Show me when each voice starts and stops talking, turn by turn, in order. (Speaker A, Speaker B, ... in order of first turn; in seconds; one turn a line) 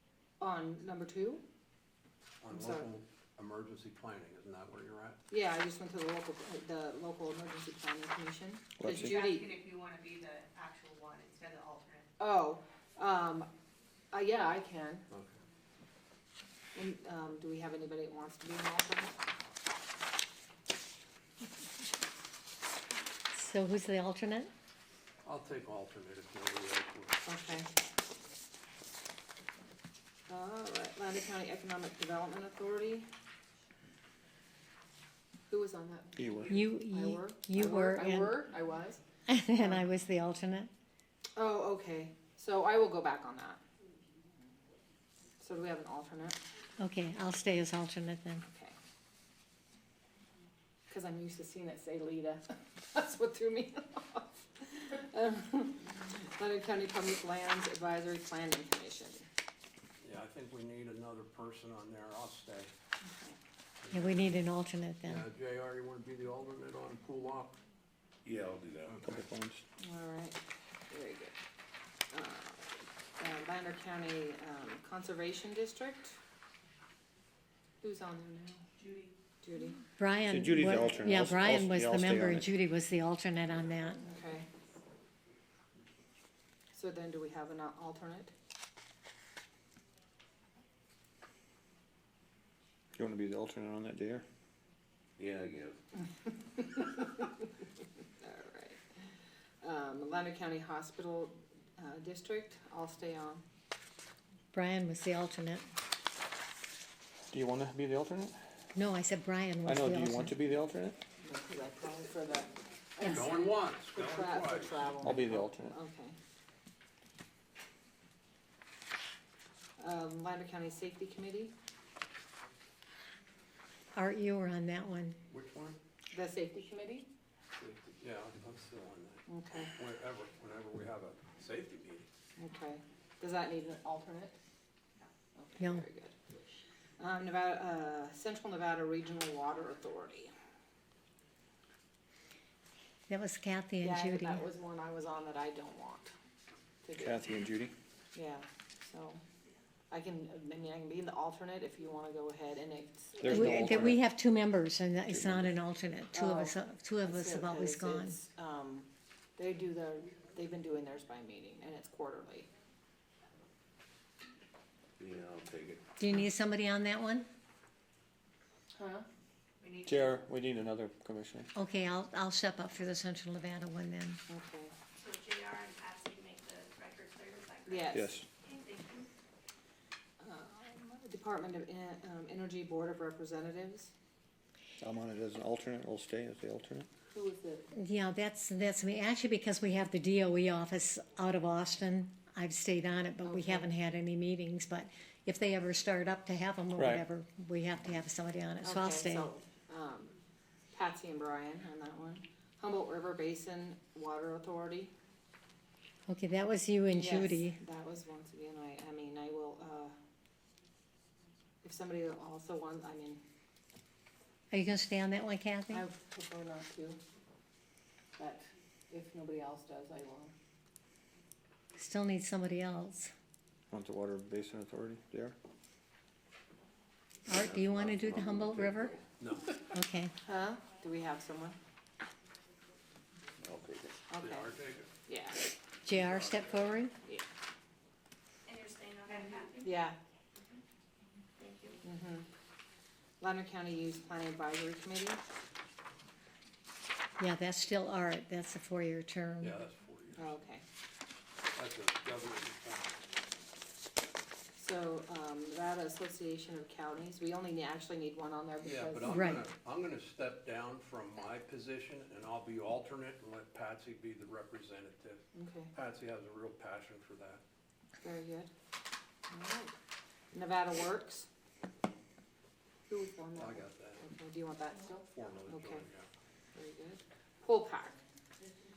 Speaker A: 0.4-1.4
Speaker B: 2.4-5.2
Speaker A: 2.5-2.9
Speaker A: 5.3-9.6
Speaker C: 8.8-9.2
Speaker D: 8.9-12.1
Speaker A: 12.2-13.5
Speaker A: 14.1-15.1
Speaker B: 15.1-15.3
Speaker A: 16.7-19.2
Speaker E: 23.3-24.5
Speaker B: 25.2-27.2
Speaker A: 27.2-27.7
Speaker A: 30.3-33.1
Speaker A: 35.5-39.0
Speaker C: 36.2-36.6
Speaker E: 36.5-38.4
Speaker E: 39.3-40.7
Speaker A: 39.6-39.8
Speaker A: 41.4-43.6
Speaker A: 45.4-46.4
Speaker E: 46.8-48.4
Speaker A: 48.4-48.7
Speaker A: 50.9-59.2
Speaker B: 60.0-62.7
Speaker A: 63.0-63.4
Speaker B: 63.8-64.4
Speaker E: 63.9-65.2
Speaker B: 65.0-67.6
Speaker F: 68.2-69.0
Speaker B: 68.9-69.2
Speaker C: 69.0-69.6
Speaker A: 69.8-70.4
Speaker A: 70.9-71.3
Speaker A: 72.1-72.7
Speaker A: 73.2-76.2
Speaker A: 77.8-78.6
Speaker A: 79.4-79.8
Speaker E: 80.0-84.1
Speaker C: 80.3-82.5
Speaker A: 84.0-84.5
Speaker A: 86.7-88.3
Speaker C: 93.0-94.2
Speaker F: 95.2-95.8
Speaker A: 96.6-97.3
Speaker A: 98.2-98.8
Speaker A: 99.6-103.4
Speaker E: 104.5-105.6
Speaker C: 107.3-108.3
Speaker E: 108.7-110.3
Speaker C: 109.7-111.0
Speaker A: 111.2-116.2
Speaker B: 113.0-115.1
Speaker C: 115.0-115.7
Speaker A: 119.8-121.5
Speaker E: 123.9-125.2
Speaker B: 125.3-125.8
Speaker A: 126.1-127.1
Speaker B: 127.6-132.1
Speaker A: 129.3-129.7
Speaker A: 132.4-134.3
Speaker A: 135.3-136.2
Speaker A: 137.0-140.3
Speaker E: 143.1-144.4
Speaker A: 143.8-146.1
Speaker A: 146.8-147.2
Speaker C: 146.9-147.7
Speaker A: 148.1-149.2
Speaker A: 149.9-153.9
Speaker C: 153.2-154.0
Speaker E: 153.2-158.2
Speaker C: 155.1-155.5
Speaker A: 156.1-162.5
Speaker F: 165.0-165.8
Speaker E: 166.0-167.3
Speaker A: 168.7-169.1
Speaker D: 169.6-170.2
Speaker C: 169.8-171.5
Speaker E: 171.5-174.2
Speaker A: 174.3-174.7
Speaker D: 175.0-179.0
Speaker A: 177.7-178.2
Speaker C: 177.9-178.2
Speaker A: 180.2-183.9
Speaker C: 184.8-186.9
Speaker A: 187.1-187.7
Speaker E: 187.7-199.3
Speaker A: 193.2-193.7
Speaker C: 196.8-197.0
Speaker A: 198.6-200.2
Speaker A: 200.7-204.9
Speaker E: 206.1-207.6
Speaker A: 206.9-209.9
Speaker A: 211.6-213.2
Speaker E: 214.5-215.8
Speaker A: 215.7-217.0
Speaker A: 218.2-220.3
Speaker E: 221.8-223.1
Speaker C: 223.7-225.3
Speaker E: 227.3-228.9
Speaker F: 227.3-229.0
Speaker B: 229.2-229.5
Speaker E: 229.7-230.1
Speaker A: 230.2-231.6
Speaker F: 233.4-233.9
Speaker A: 234.1-234.5
Speaker B: 234.2-234.9
Speaker A: 235.0-235.4
Speaker E: 235.8-236.9
Speaker B: 235.9-236.6
Speaker D: 238.5-239.7
Speaker A: 239.6-240.0
Speaker D: 241.4-241.8
Speaker A: 241.8-242.3
Speaker A: 243.2-245.2
Speaker E: 247.2-249.6
Speaker B: 249.4-250.3
Speaker A: 250.2-250.6
Speaker B: 251.5-253.0
Speaker A: 254.6-259.4
Speaker B: 258.6-267.4
Speaker E: 259.1-259.4
Speaker A: 265.3-265.7
Speaker A: 268.0-268.5
Speaker A: 269.3-269.7
Speaker A: 270.3-271.3
Speaker A: 272.9-275.8
Speaker B: 273.4-274.0
Speaker B: 275.1-276.1
Speaker A: 276.5-277.9